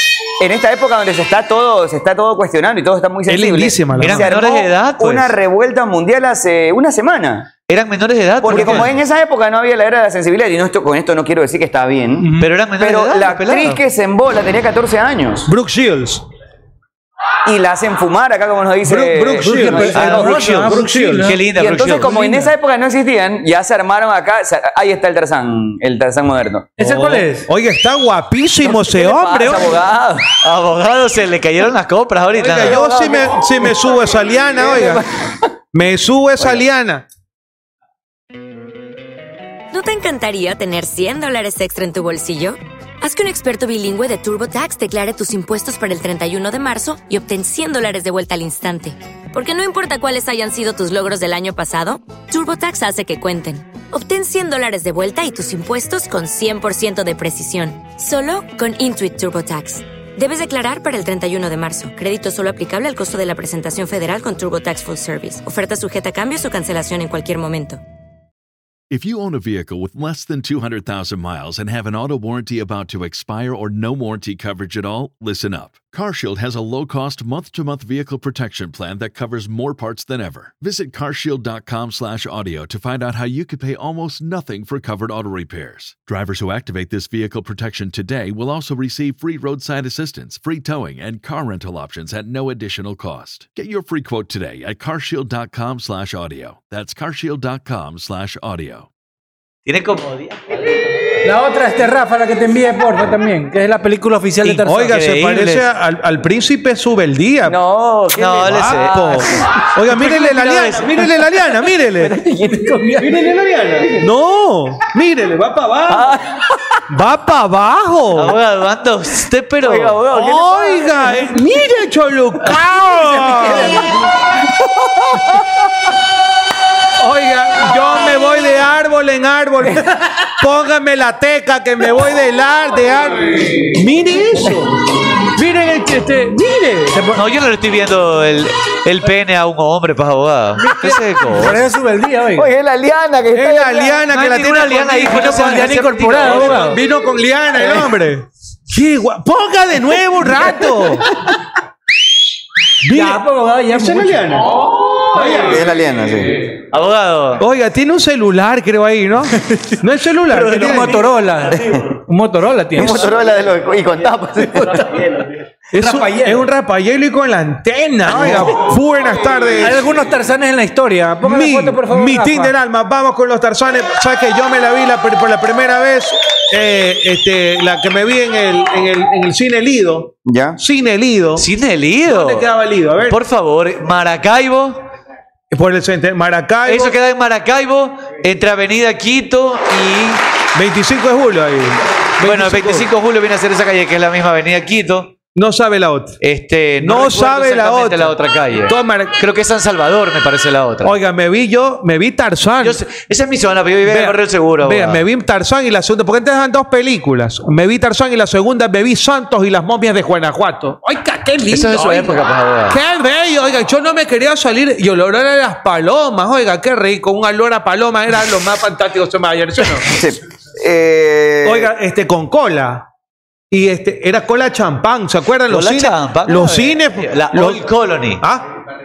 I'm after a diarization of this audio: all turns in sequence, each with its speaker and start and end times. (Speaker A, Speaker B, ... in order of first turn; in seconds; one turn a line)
Speaker A: 0.4-7.5
Speaker B: 3.3-4.3
Speaker C: 4.0-5.3
Speaker C: 7.7-8.9
Speaker A: 8.4-15.5
Speaker B: 8.5-8.8
Speaker D: 12.2-12.5
Speaker C: 12.4-13.8
Speaker B: 15.5-16.2
Speaker A: 17.4-20.6
Speaker B: 18.8-21.3
Speaker D: 19.4-21.4
Speaker C: 19.9-20.7
Speaker C: 21.2-22.1
Speaker A: 21.5-26.7
Speaker D: 22.1-22.4
Speaker D: 26.8-27.5
Speaker B: 26.8-29.7
Speaker A: 28.6-30.3
Speaker C: 30.4-32.8
Speaker B: 32.4-35.0
Speaker A: 32.5-34.0
Speaker A: 34.5-35.5
Speaker B: 35.7-37.0
Speaker E: 39.7-67.8
Speaker F: 68.9-98.9
Speaker C: 99.7-100.4
Speaker D: 101.2-104.9
Speaker C: 104.4-105.6
Speaker B: 104.7-107.6
Speaker A: 107.4-109.4
Speaker C: 108.1-109.3
Speaker B: 108.4-112.1
Speaker C: 109.8-110.9
Speaker A: 111.9-112.9
Speaker D: 112.2-113.2
Speaker B: 113.0-116.1
Speaker A: 113.8-114.1
Speaker A: 115.9-116.8
Speaker B: 116.9-118.4
Speaker C: 118.1-120.0
Speaker A: 119.6-121.4
Speaker B: 120.1-123.9
Speaker A: 123.2-125.5
Speaker B: 127.0-129.8
Speaker B: 130.4-134.8
Speaker B: 135.4-135.7
Speaker D: 135.5-137.2
Speaker C: 137.1-141.7
Speaker D: 140.6-142.5
Speaker A: 142.3-144.0
Speaker B: 143.3-145.5
Speaker C: 144.1-146.7
Speaker D: 145.0-146.8
Speaker B: 146.2-151.1
Speaker A: 150.8-151.2
Speaker B: 152.8-154.5
Speaker D: 152.9-154.2
Speaker A: 155.1-156.4
Speaker C: 156.7-157.4
Speaker B: 157.4-161.0
Speaker D: 160.3-163.1
Speaker A: 161.5-161.8
Speaker A: 162.8-165.1
Speaker D: 164.4-165.0
Speaker B: 165.7-169.9
Speaker D: 165.8-166.5
Speaker D: 169.6-172.5
Speaker B: 171.2-181.4
Speaker A: 180.2-180.6
Speaker C: 181.3-182.5
Speaker B: 182.1-183.2
Speaker C: 183.0-184.8
Speaker B: 185.5-186.9
Speaker C: 186.6-190.2
Speaker B: 190.5-192.9
Speaker C: 192.2-195.1
Speaker B: 195.3-196.2
Speaker C: 196.2-200.9
Speaker B: 196.8-198.1
Speaker B: 198.7-199.1
Speaker B: 200.8-202.8
Speaker C: 202.6-205.0
Speaker B: 203.8-212.2
Speaker C: 211.5-212.8
Speaker B: 212.7-220.0
Speaker A: 219.9-221.7
Speaker B: 221.4-222.8
Speaker B: 223.5-227.6
Speaker C: 225.5-228.2
Speaker B: 228.2-228.4